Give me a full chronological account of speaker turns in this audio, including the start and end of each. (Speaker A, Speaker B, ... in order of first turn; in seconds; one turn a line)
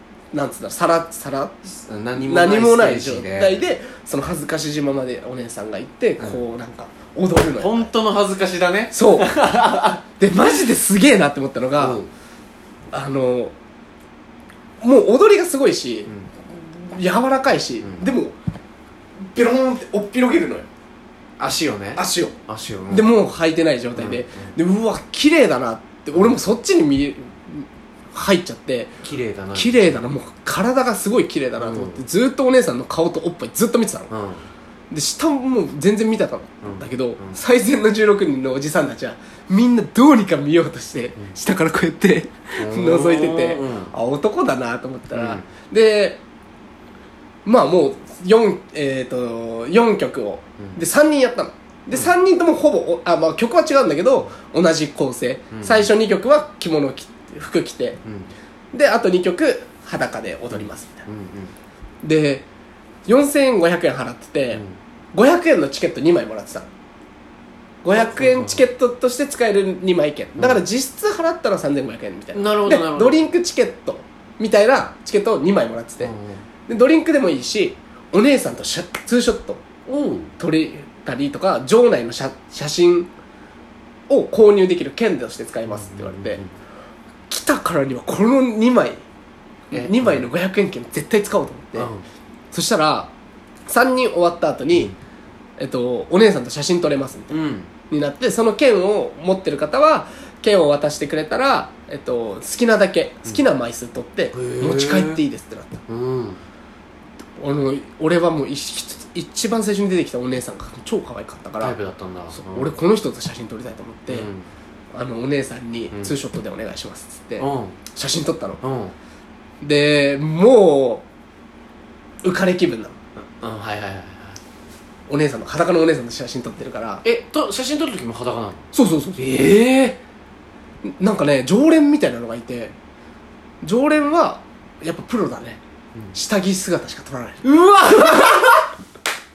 Speaker A: 0.3-1.6
Speaker B: 1.6-3.6
Speaker A: 2.2-7.9
Speaker B: 7.6-10.0
Speaker A: 8.9-9.3
Speaker A: 10.1-12.0
Speaker B: 11.8-12.1
Speaker A: 12.9-13.5
Speaker A: 14.8-18.3
Speaker A: 19.2-20.7
Speaker B: 21.4-23.1
Speaker A: 21.9-22.4
Speaker A: 22.9-29.0
Speaker B: 23.9-24.6
Speaker B: 29.0-30.1
Speaker A: 29.5-34.1
Speaker B: 31.6-32.0
Speaker B: 34.1-34.5
Speaker A: 34.9-46.2
Speaker B: 36.6-37.4
Speaker B: 42.6-43.9
Speaker B: 45.1-45.4
Speaker A: 47.4-58.0
Speaker B: 55.5-55.9
Speaker B: 58.0-58.3
Speaker A: 58.7-61.1
Speaker B: 60.5-61.5
Speaker A: 62.0-62.5
Speaker A: 63.1-64.6
Speaker B: 64.5-64.8
Speaker A: 65.1-66.7
Speaker A: 67.8-76.1
Speaker B: 67.9-68.7
Speaker B: 72.3-73.3
Speaker B: 76.0-76.4
Speaker A: 76.7-79.7
Speaker B: 79.9-80.3
Speaker A: 80.4-83.1
Speaker A: 84.1-86.4
Speaker B: 85.7-86.5
Speaker A: 87.3-89.0
Speaker A: 89.7-91.9
Speaker B: 89.7-90.3
Speaker B: 91.8-92.0
Speaker A: 92.5-93.1
Speaker A: 93.7-94.9
Speaker A: 95.6-97.4
Speaker B: 97.3-97.7
Speaker A: 97.9-105.8
Speaker B: 104.3-105.2
Speaker B: 105.9-106.4
Speaker A: 107.4-111.8
Speaker B: 111.6-112.7
Speaker A: 112.3-114.3
Speaker B: 114.1-114.5
Speaker A: 114.9-118.6
Speaker B: 117.4-117.8
Speaker B: 118.6-118.9
Speaker A: 119.6-121.0
Speaker A: 122.2-123.0
Speaker B: 123.4-124.4
Speaker A: 125.1-127.0
Speaker B: 127.0-128.7
Speaker A: 128.7-129.3
Speaker B: 129.2-130.0
Speaker A: 130.8-132.8
Speaker A: 133.6-135.6
Speaker A: 136.1-137.4
Speaker B: 137.4-138.7
Speaker A: 138.0-138.3